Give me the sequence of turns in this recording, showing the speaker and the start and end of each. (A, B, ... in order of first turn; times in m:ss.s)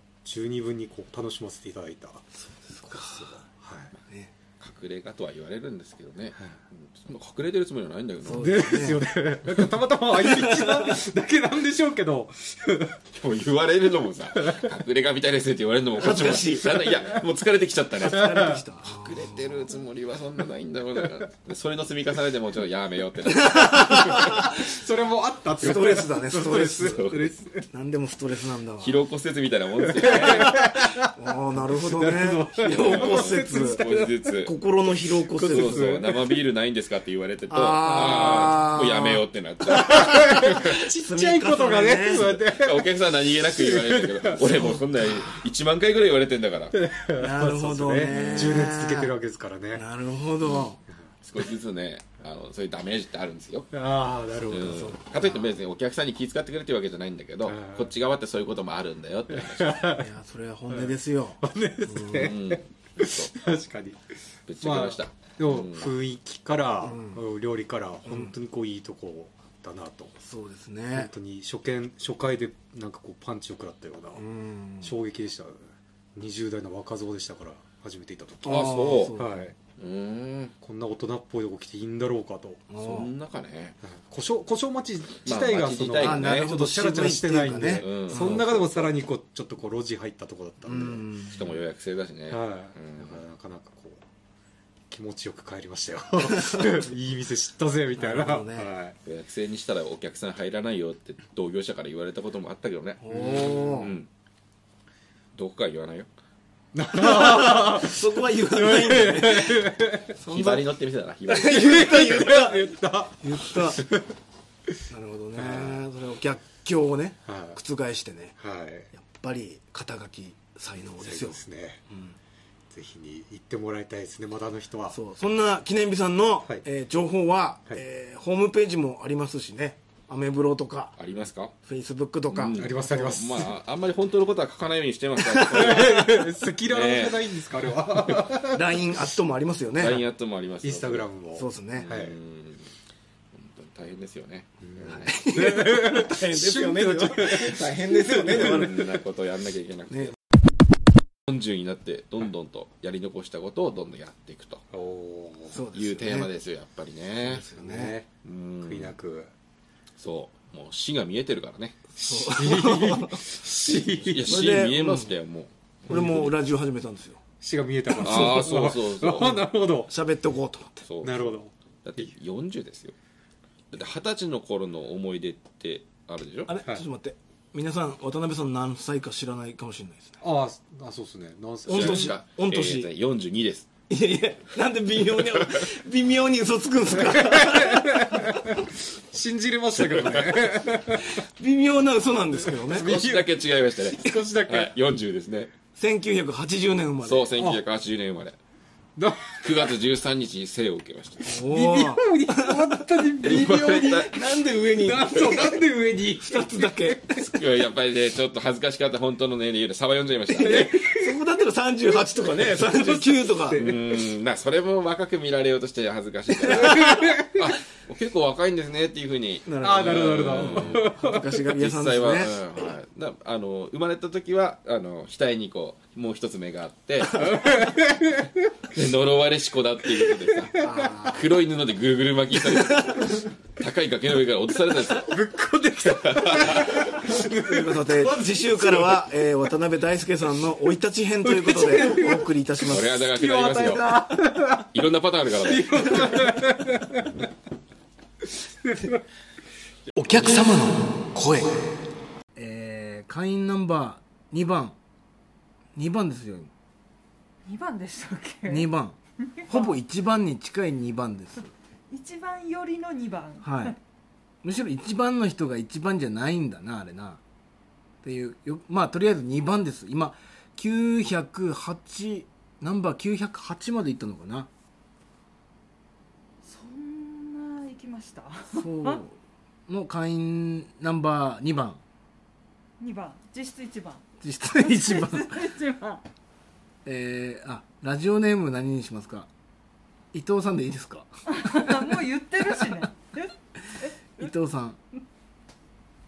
0:00.2-0:02.2 A
0:02.6-0:03.4 B
0:02.8-0:03.9 A
0:04.6-0:08.8 C
0:08.2-0:09.0 B
0:08.3-0:13.0 A
0:10.4-0:11.0 B
0:13.1-0:24.4 C
0:14.4-0:14.7 A
0:16.0-0:17.0 B
0:18.0-0:19.7 B
0:18.0-0:18.6 A
0:23.3-0:24.7 B
0:24.0-0:27.6 A
0:25.6-0:27.0 B
0:26.6-0:27.3 C
0:27.7-0:29.0 B
0:28.8-0:30.5 C
0:29.8-0:31.1 A
0:30.0-0:33.8 B
0:31.7-0:34.2 A
0:32.6-0:34.5 C
0:34.4-0:35.9 B
0:35.2-0:36.4 A
0:35.4-0:40.7 C
0:37.5-0:39.2 B
0:38.1-0:38.5 A
0:39.7-0:44.7 A
0:39.8-0:42.4 B
0:42.4-0:46.8 C
0:46.7-0:49.8 A
0:47.2-0:49.1 B
0:48.1-0:48.6 C
0:49.7-0:50.8 B
0:51.2-0:53.7 C
0:53.7-0:54.9 A
0:54.5-0:59.8 C
0:54.7-0:55.5 B
0:57.5-0:57.9 A
0:59.3-1:00.0 A
0:59.9-1:02.3 B
1:00.7-1:04.0 A
1:02.1-1:03.3 C
1:04.5-1:05.9 C
1:04.6-1:10.1 A
1:06.8-1:07.2 B
1:08.1-1:08.3 B
1:10.2-1:11.1 B
1:11.0-1:14.2 A
1:14.1-1:14.9 B
1:14.8-1:19.5 A
1:18.4-1:19.5 B
1:18.4-1:19.2 C
1:19.8-1:20.5 C
1:20.6-1:22.6 A
1:22.7-1:23.1 B
1:22.8-1:23.8 C
1:23.8-1:31.0 A
1:25.2-1:26.5 C
1:26.0-1:28.4 B
1:27.6-1:28.9 C
1:30.6-1:31.3 B
1:31.3-1:33.2 C
1:32.3-1:34.0 A
1:34.9-1:39.0 A
1:38.0-1:38.7 B
1:39.0-1:44.1 C
1:43.0-1:43.9 B
1:45.3-1:46.1 C
1:46.7-1:50.1 A
1:47.0-1:50.7 B
1:50.2-1:52.0 C
1:51.3-1:53.8 B
1:51.5-1:54.1 A
1:54.9-1:58.4 B
1:55.4-1:55.8 A
1:57.2-1:57.6 A
1:58.4-1:58.9 A
1:58.9-2:02.2 B
2:01.0-2:01.8 A
2:02.7-2:05.0 A
2:04.9-2:10.9 B
2:11.0-2:11.5 C
2:11.6-2:12.6 B
2:12.3-2:17.3 C
2:12.5-2:13.5 A
2:15.2-2:15.8 B
2:15.4-2:18.8 A
2:18.5-2:20.0 B
2:19.8-2:21.1 C
2:20.6-2:22.1 A
2:21.3-2:21.9 B
2:21.8-2:22.7 C
2:23.3-2:25.2 C
2:24.7-2:29.0 A
2:24.8-2:28.8 B
2:28.1-2:30.1 C
2:31.3-2:34.6 C
2:34.7-2:35.6 A
2:35.5-2:36.3 B
2:35.7-2:37.4 C
2:37.2-2:38.0 B
2:37.5-2:38.1 A
2:38.2-2:38.9 C
2:38.6-2:39.3 A
2:40.0-2:41.8 C
2:42.0-2:43.4 B
2:42.0-2:44.4 A
2:44.0-2:46.3 C
2:44.2-2:45.1 B
2:45.9-2:47.2 B
2:47.4-2:49.9 A
2:48.0-2:49.3 C
2:48.0-2:48.4 B
2:49.9-2:50.8 B
2:50.8-2:51.3 C
2:51.0-2:52.1 A
2:51.8-2:52.9 C
2:53.7-2:56.5 C
2:56.5-3:00.2 B
3:00.2-3:02.1 A
3:01.7-3:03.7 C
3:01.7-3:02.9 B
3:03.9-3:08.3 B
3:07.0-3:11.2 A
3:09.8-3:10.4 C
3:11.0-3:12.9 B
3:12.6-3:14.7 A
3:12.7-3:15.5 C
3:15.7-3:17.3 B
3:17.0-3:18.4 C
3:19.0-3:19.7 A
3:19.4-3:21.4 C
3:21.2-3:22.8 B
3:21.5-3:27.2 A
3:23.2-3:24.2 C
3:23.8-3:25.5 B
3:26.2-3:27.2 B
3:27.1-3:30.8 C
3:30.3-3:33.7 B
3:30.4-3:31.2 A
3:32.5-3:33.8 A
3:33.5-3:40.9 C
3:36.6-3:37.3 A
3:36.7-3:37.1 B
3:39.4-3:42.4 B
3:39.6-3:41.3 A
3:41.4-3:47.5 C
3:47.2-3:48.5 A
3:48.7-3:55.2 C
3:50.0-3:50.9 A
3:50.6-3:51.3 B
3:52.6-3:53.0 B
3:54.9-3:59.0 A
3:56.0-3:56.8 C
3:57.0-4:03.1 B
4:01.2-4:02.3 A
4:02.6-4:03.9 C
4:03.0-4:04.7 A
4:04.6-4:06.2 C
4:05.4-4:07.3 A
4:08.3-4:09.0 A
4:10.0-4:11.7 B
4:12.4-4:14.8 B
4:15.8-4:16.5 B
4:17.4-4:18.7 D
4:18.4-4:21.5 B
4:19.2-4:19.7 D
4:21.9-4:23.8 D
4:23.4-4:23.8 B
4:24.4-4:27.2 B
4:28.0-4:34.5 B
4:36.4-4:39.0 D
4:38.5-4:41.8 B
4:42.8-4:46.0 D
4:44.2-4:45.4 B
4:46.8-4:49.3 B
4:50.1-4:52.0 B
4:51.3-4:54.3 D
4:54.2-4:54.8 B